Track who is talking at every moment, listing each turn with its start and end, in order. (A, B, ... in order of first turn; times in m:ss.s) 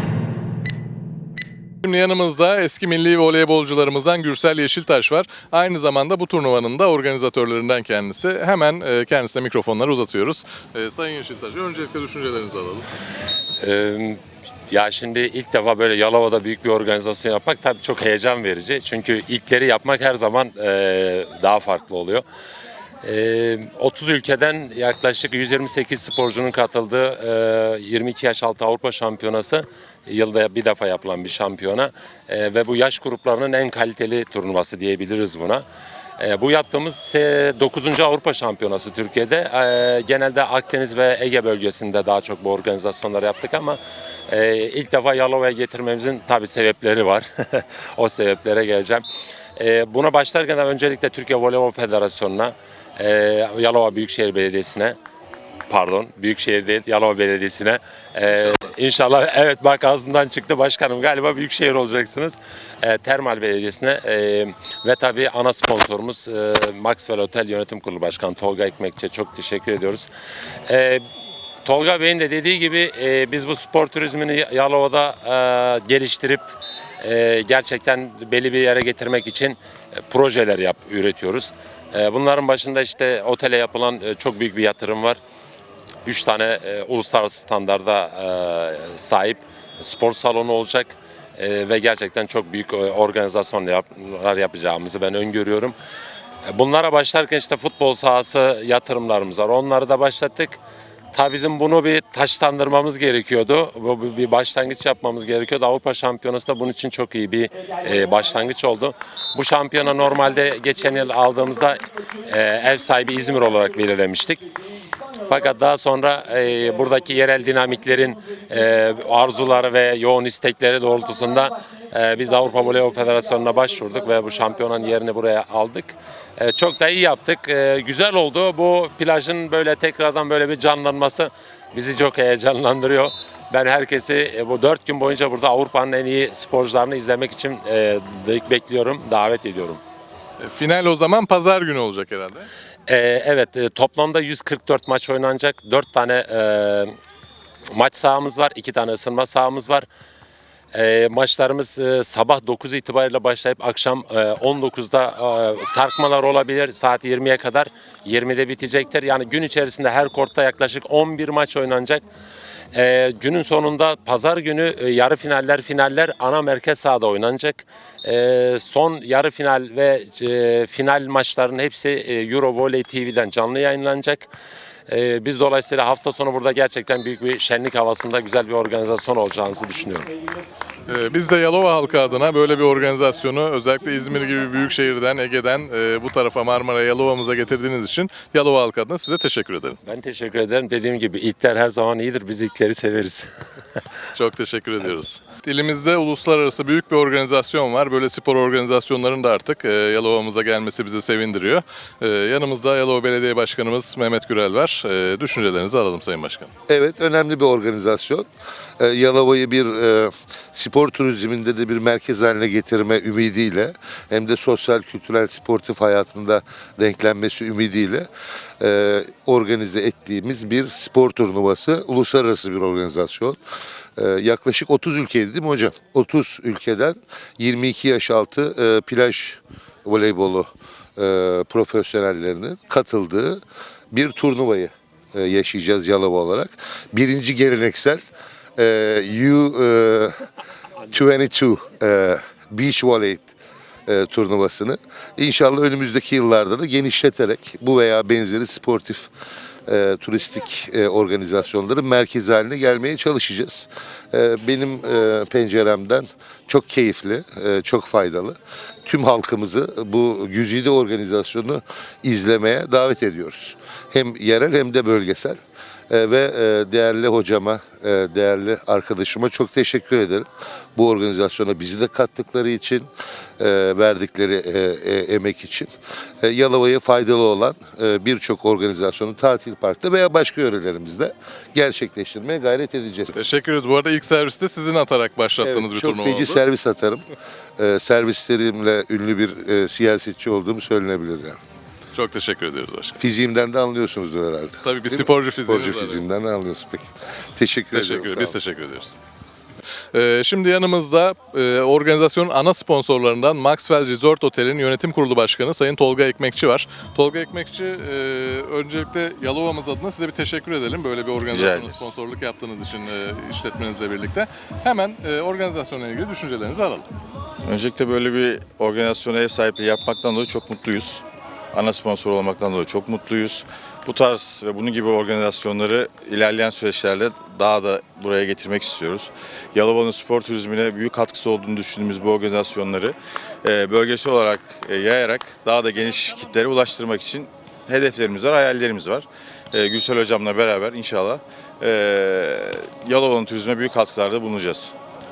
0:01.8-0:12.9 A
0:13.6-0:22.2 B
0:23.0-0:35.6 B
0:36.2-0:49.0 B
0:49.6-0:55.0 B
0:55.7-1:10.1 B
1:10.7-1:11.0 B
1:11.6-1:25.2 B
1:26.0-1:35.7 B
1:36.4-1:40.6 B
1:41.1-1:54.4 B
1:55.2-2:19.8 B
2:20.4-2:22.5 A
2:22.9-2:26.9 B
2:27.7-2:29.9 B
2:30.7-2:42.0 B
2:42.7-2:54.3 B
2:54.9-3:00.1 B
3:00.9-3:09.8 A
3:09.8-3:13.3 B
3:14.1-3:26.5 A
3:26.7-3:28.2 C
3:28.8-3:38.1 C
3:38.6-3:43.4 C
3:44.0-3:58.0 C
3:58.6-4:00.2 C
4:00.9-4:03.3 C
4:03.9-4:09.1 C
4:09.7-4:25.4 C
4:25.9-4:35.7 C
4:36.2-4:43.1 C
4:43.1-4:46.4 A
4:45.4-4:47.0 C
4:47.6-4:51.4 C
4:51.9-4:53.0 A
4:53.0-4:58.4 C
4:54.6-4:56.0 A
4:57.7-4:59.0 A
4:59.9-5:16.8 A
5:11.3-5:11.9 D
5:17.4-5:44.7 D